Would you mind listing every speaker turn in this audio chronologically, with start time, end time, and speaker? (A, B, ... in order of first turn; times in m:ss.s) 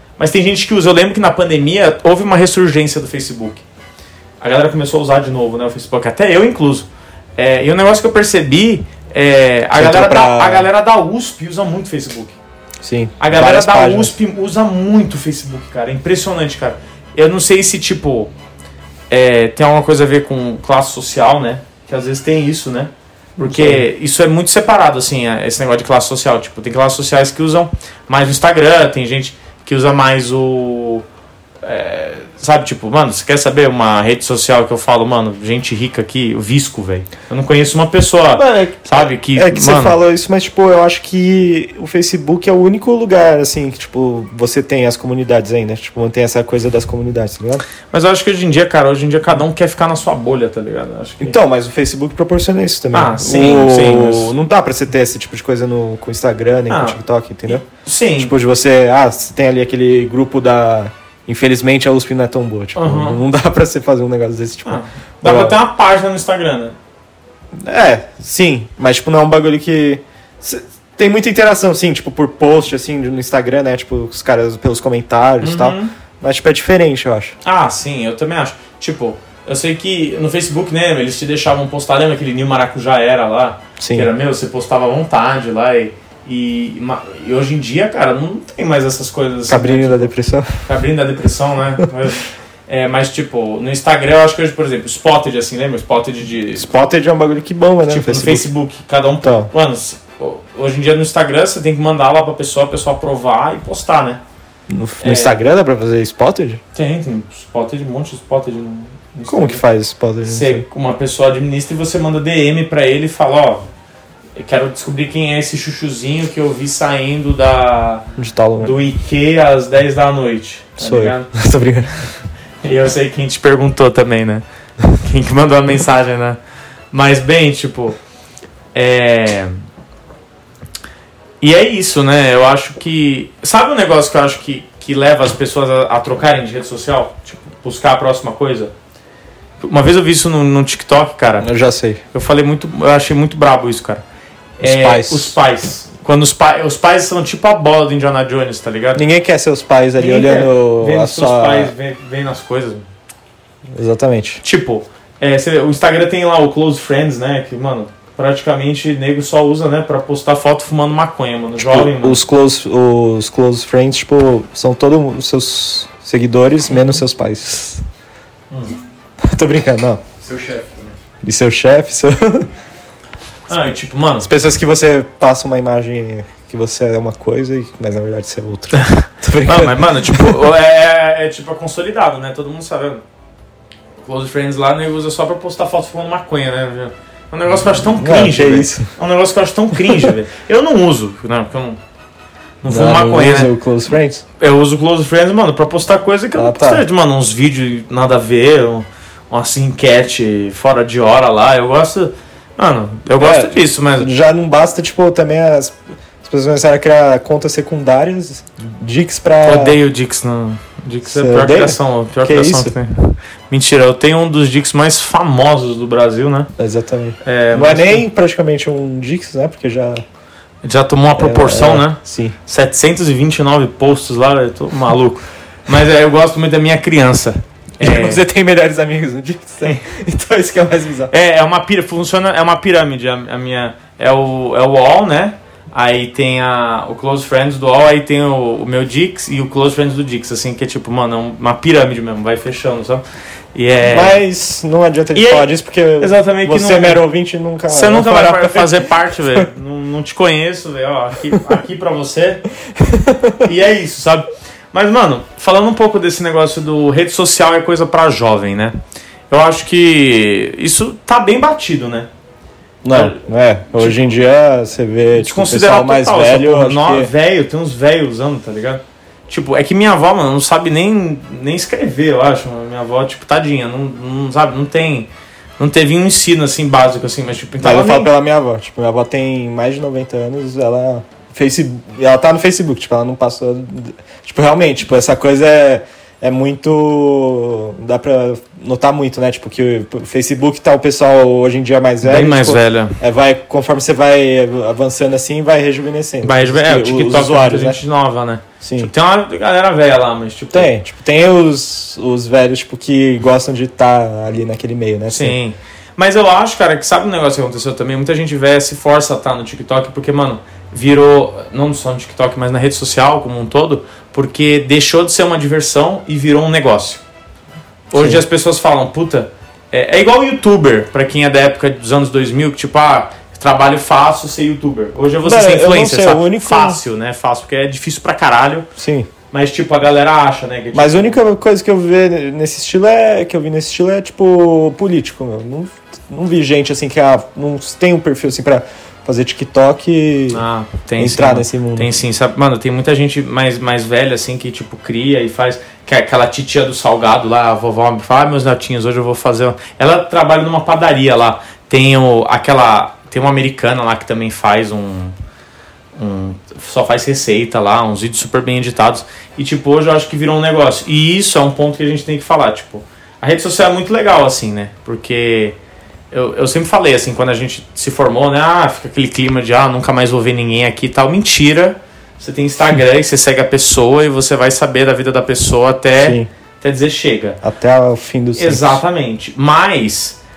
0:00.2-0:03.6 A
0:04.4-0:12.4 A
0:09.7-0:10.7 B
0:12.8-0:14.1 B
0:13.2-0:18.3 A
0:19.1-0:31.0 A
0:23.4-0:23.9 B
0:31.6-0:40.0 A
0:38.3-0:47.6 B
0:47.9-0:51.4 A
0:51.2-0:57.6 B
0:52.9-0:54.3 A
0:56.7-0:58.3 A
0:58.2-1:05.6 B
1:02.7-1:03.2 A
1:04.6-1:06.8 A
1:07.5-1:17.3 B
1:15.4-1:15.9 A
1:17.4-1:30.1 A
1:23.8-1:24.1 B
1:29.5-1:30.7 B
1:30.6-1:36.7 A
1:36.5-1:38.5 B
1:37.8-1:44.2 A
1:39.2-1:39.5 B
1:44.7-1:46.6 B
1:45.0-1:45.3 A
1:46.7-1:49.6 A
1:49.3-1:50.6 B
1:50.2-1:53.6 A
1:54.4-1:58.0 A
1:58.2-1:58.7 B
1:58.6-2:01.3 A
2:00.8-2:02.1 B
2:02.6-2:06.4 A
2:06.9-2:08.0 A
2:08.7-2:09.6 A
2:11.4-2:18.7 A
2:19.6-2:21.5 A
2:21.4-2:22.0 B
2:22.1-2:24.0 A
2:24.6-2:29.0 A
2:24.6-2:25.4 B
2:28.9-2:31.7 B
2:30.0-2:32.8 A
2:33.7-2:34.4 B
2:34.4-2:42.2 A
2:41.6-2:47.8 B
2:48.5-2:48.8 A
2:49.2-2:50.0 B
2:50.2-2:50.9 A
2:51.2-2:52.5 B
2:53.5-2:54.3 A
2:54.2-3:00.3 B
2:58.7-3:03.0 A
3:04.0-3:11.8 A
3:07.9-3:08.9 B
3:12.6-3:13.5 A
3:12.6-3:14.2 B
3:14.4-3:24.1 A
3:16.4-3:16.8 B
3:23.2-3:29.8 B
3:29.4-3:36.5 A
3:31.0-3:32.7 B
3:36.6-3:40.0 B
3:37.2-3:38.0 A
3:40.6-3:48.2 A
3:41.2-3:42.4 B
3:47.8-3:51.1 B
3:51.1-4:04.2 A
4:03.9-4:09.4 B
4:05.1-4:05.5 A
4:06.0-4:07.0 A
4:07.7-4:12.4 A
4:12.8-4:13.4 B
4:13.4-4:18.8 A
4:19.3-4:22.1 A
4:22.8-4:27.1 B
4:22.9-4:23.2 A
4:23.7-4:24.1 A
4:25.1-4:35.1 A
4:35.6-4:38.1 A
4:37.6-4:57.8 B
4:52.0-4:53.0 A
4:56.2-5:00.7 A
4:58.6-4:58.9 B
5:00.5-5:05.4 B
5:05.1-5:17.0 A
5:17.9-5:28.7 A
5:17.9-5:18.2 B
5:25.2-5:26.8 B
5:28.8-5:29.1 B
5:29.3-5:31.2 A
5:30.7-5:40.4 B
5:40.3-5:55.1 A
5:41.0-5:41.9 B
5:56.0-6:05.6 A
6:06.1-6:17.4 A
6:16.0-6:16.3 B
6:17.4-6:18.8 B
6:18.4-6:20.2 A